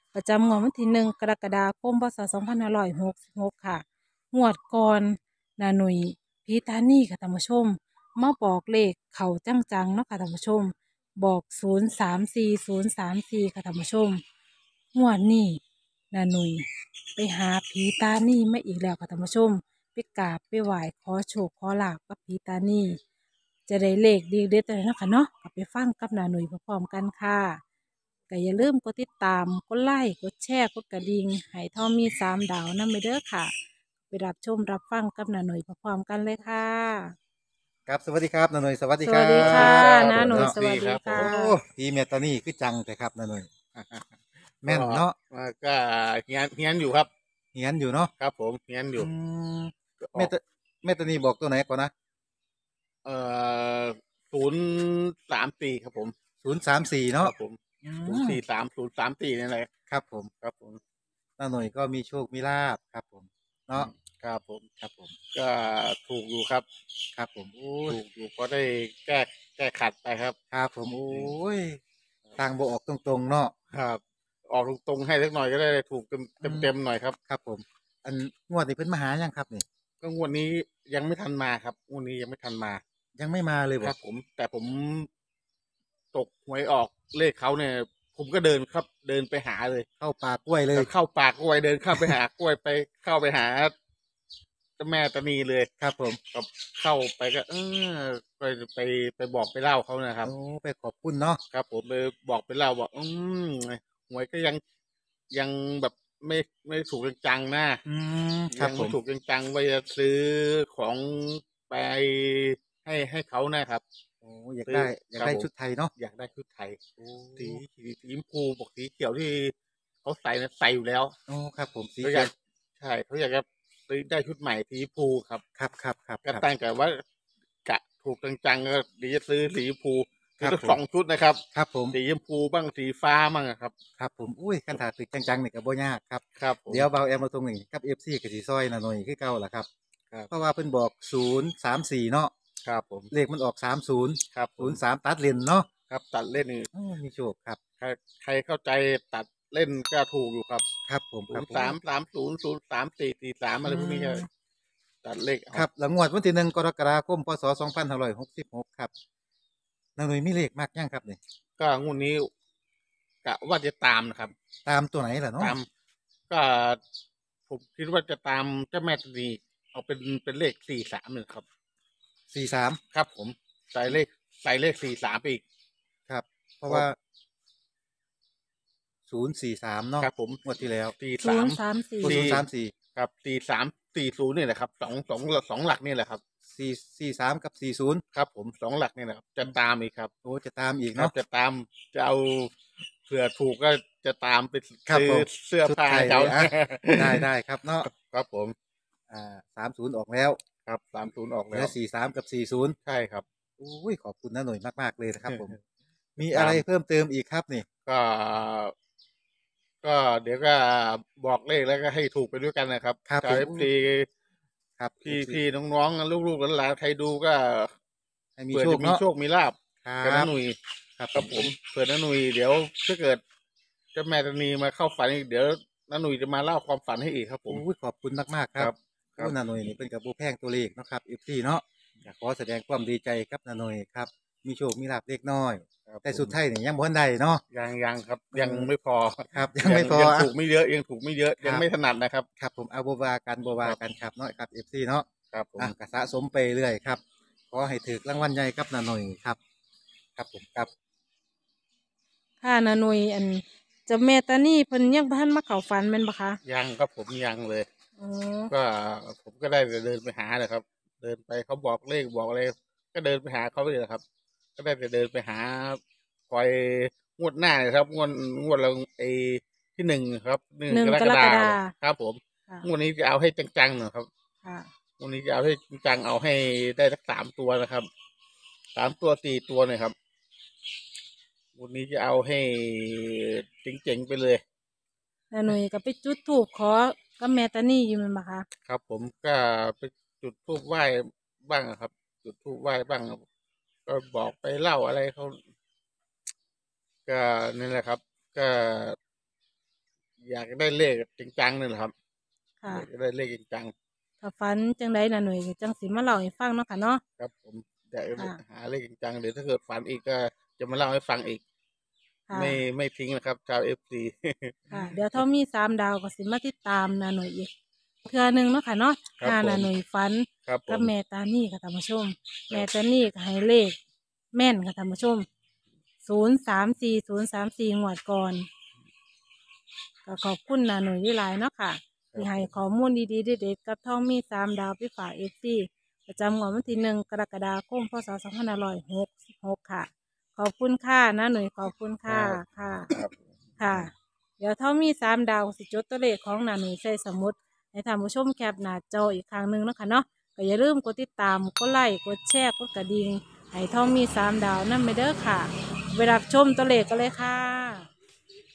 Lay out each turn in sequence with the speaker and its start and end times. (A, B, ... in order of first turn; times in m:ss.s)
0:00.1-0:14.2 A
0:14.9-0:15.6 A
0:16.1-0:16.6 A
0:17.2-0:23.0 A
0:23.7-0:27.6 A
0:28.3-0:33.5 A
0:34.1-0:37.1 A
0:37.9-0:40.6 B
0:39.0-0:41.5 A
0:39.3-0:41.3 C
0:41.1-0:43.9 B
0:44.6-0:45.1 B
0:44.6-0:47.1 C
0:47.5-0:48.1 B
0:48.2-0:49.1 C
0:49.0-0:51.9 B
0:50.0-0:50.3 C
0:53.0-0:56.1 C
0:56.4-0:58.4 B
0:57.2-0:59.7 C
0:59.9-1:00.3 B
1:00.4-1:00.8 C
1:01.4-1:03.9 B
1:03.8-1:04.7 C
1:04.8-1:05.1 B
1:05.3-1:06.6 C
1:07.1-1:08.0 B
1:07.9-1:10.4 C
1:10.5-1:11.8 B
1:12.4-1:13.5 B
1:13.7-1:17.2 C
1:16.4-1:16.7 B
1:17.3-1:19.6 B
1:20.0-1:22.8 C
1:23.2-1:23.9 B
1:23.8-1:25.1 C
1:26.1-1:29.9 C
1:30.0-1:30.9 B
1:30.7-1:33.7 C
1:34.8-1:35.7 C
1:35.8-1:36.2 B
1:36.3-1:40.3 C
1:40.2-1:41.4 B
1:41.5-1:44.6 C
1:45.3-1:47.8 C
1:47.8-1:48.9 B
1:48.5-1:53.8 C
1:54.2-1:55.9 B
1:54.6-1:56.8 C
1:57.0-1:57.6 B
1:57.4-2:01.1 C
2:01.3-2:02.3 B
2:02.0-2:05.4 C
2:05.6-2:06.5 B
2:06.2-2:07.0 C
2:07.6-2:13.7 C
2:10.4-2:10.8 B
2:11.5-2:12.0 B
2:14.0-2:19.7 B
2:16.4-2:16.9 C
2:20.3-2:22.3 B
2:22.6-2:23.1 C
2:23.1-2:25.7 B
2:24.3-2:24.8 C
2:25.9-2:26.7 C
2:26.7-2:27.6 B
2:27.8-2:30.7 C
2:30.9-2:31.8 B
2:31.3-2:34.3 C
2:33.6-2:34.3 B
2:35.0-2:35.7 C
2:35.5-2:38.9 B
2:40.0-2:41.2 B
2:41.6-2:42.3 C
2:43.2-2:44.3 C
2:44.6-2:45.6 B
2:45.4-2:45.7 C
2:46.3-2:46.8 C
2:47.5-2:51.4 C
2:52.3-2:52.8 B
2:52.9-2:55.4 C
2:56.1-2:57.0 B
2:59.1-3:00.9 B
3:00.0-3:02.4 C
3:01.2-3:02.2 A
3:02.0-3:02.7 B
3:03.0-3:06.2 C
3:06.5-3:08.0 B
3:08.1-3:10.1 C
3:10.2-3:11.1 B
3:11.0-3:12.5 C
3:13.0-3:17.2 C
3:14.9-3:17.9 B
3:17.8-3:18.5 C
3:19.1-3:20.4 B
3:20.6-3:21.7 C
3:21.5-3:22.8 B
3:22.8-3:23.2 C
3:23.6-3:25.5 B
3:26.2-3:27.6 B
3:26.3-3:26.6 C
3:27.8-3:28.7 C
3:29.8-3:34.1 C
3:33.1-3:33.7 B
3:34.8-3:35.4 B
3:35.0-3:37.7 C
3:38.4-3:39.0 B
3:38.5-3:40.6 C
3:39.8-3:40.3 B
3:41.0-3:41.4 B
3:41.1-3:43.2 C
3:43.9-3:47.6 C
3:47.5-3:57.4 B
3:48.6-3:49.3 C
3:55.9-3:56.4 C
3:57.5-4:02.3 C
3:58.3-3:58.7 B
3:59.3-4:00.3 B
4:02.4-4:05.1 B
4:05.3-4:05.7 C
4:05.6-4:09.4 B
4:10.2-4:10.7 B
4:12.4-4:16.4 A
4:16.4-4:17.7 C
4:18.0-4:18.5 A
4:18.5-4:24.0 C
4:24.6-4:34.1 C
4:30.7-4:31.7 A
4:35.0-4:37.9 C
4:38.7-4:39.9 C
4:41.6-4:44.4 C
4:45.3-4:48.4 A
4:48.6-4:53.2 C
4:53.9-4:55.4 C
4:57.1-4:59.0 C
5:00.2-5:01.9 C
5:02.7-5:03.7 C
5:04.2-5:07.0 A
5:07.2-5:11.4 C
5:12.3-5:12.6 A
5:12.3-5:15.2 C
5:14.7-5:17.5 A
5:18.0-5:23.8 A
5:19.2-5:19.7 C
5:20.4-5:20.9 C
5:24.3-5:25.2 A
5:26.0-5:28.5 A
5:30.0-5:42.9 A
5:32.1-5:32.5 C
5:42.1-5:43.8 C
5:43.6-5:57.9 A